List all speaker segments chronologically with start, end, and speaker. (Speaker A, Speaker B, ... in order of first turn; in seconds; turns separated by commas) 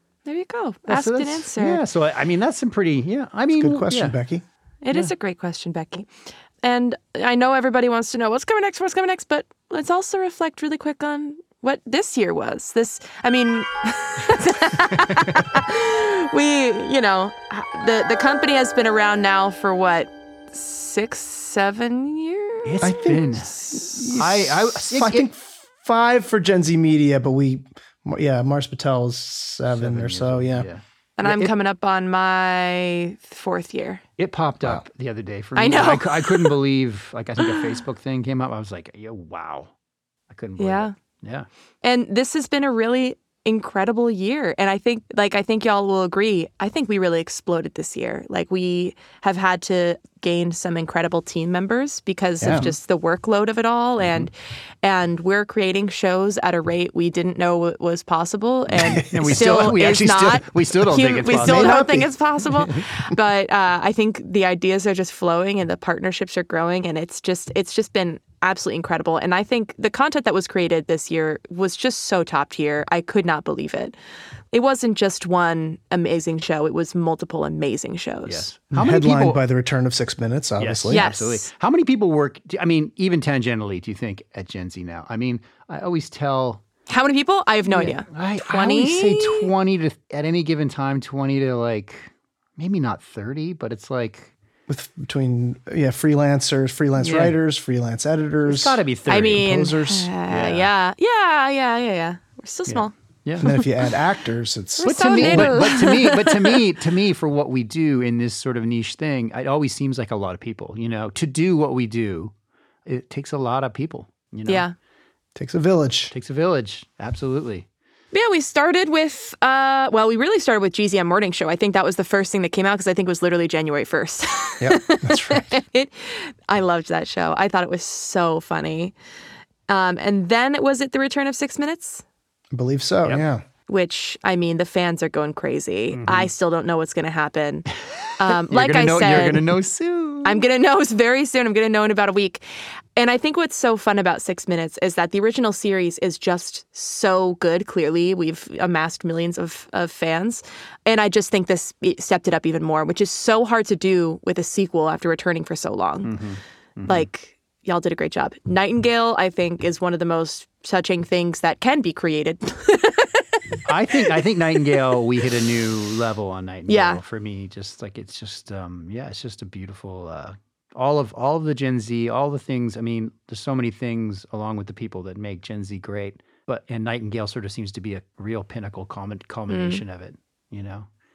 Speaker A: 0.3-1.8, Speaker B: 0.9-4.2, Speaker C: 3.6-4.5, Speaker A: 4.8-23.9, Speaker B: 22.6-25.3, Speaker C: 22.8-30.7, Speaker B: 29.7-31.5, Speaker A: 31.2-34.0, Speaker B: 34.2-39.7, Speaker A: 35.6-36.5, Speaker B: 40.3-41.5, Speaker A: 40.6-40.9, Speaker A: 41.8-54.3, Speaker C: 52.4-52.7, Speaker B: 54.0-54.3, Speaker A: 54.8-74.0, Speaker C: 58.9-59.3, Speaker B: 59.0-61.9, Speaker C: 61.3-62.1, Speaker A: 74.5-78.5, Speaker B: 78.3-79.4, Speaker C: 78.7-81.1, Speaker B: 80.6-86.6, Speaker A: 80.9-81.5, Speaker A: 86.9-89.5, Speaker B: 87.7-94.3, Speaker C: 94.7-100.1, Speaker B: 97.0-97.4, Speaker B: 98.5-99.5, Speaker A: 99.1-102.9, Speaker B: 100.3-100.7, Speaker B: 102.7-103.5, Speaker C: 103.4-105.6, Speaker A: 104.8-106.6, Speaker B: 104.8-112.3, Speaker B: 112.9-114.7, Speaker A: 114.5-114.7, Speaker C: 115.4-116.1, Speaker B: 116.1-117.7, Speaker A: 118.1-128.9, Speaker C: 124.6-125.5, Speaker A: 129.7-132.0, Speaker C: 132.5-133.4, Speaker A: 133.7-137.7, Speaker B: 135.9-136.3, Speaker A: 138.2-139.4, Speaker B: 138.2-140.4, Speaker A: 140.2-142.4, Speaker A: 143.0-156.1, Speaker B: 156.0-157.1, Speaker A: 156.9-163.2, Speaker B: 163.7-180.9, Speaker A: 166.7-167.0, Speaker A: 179.5-179.8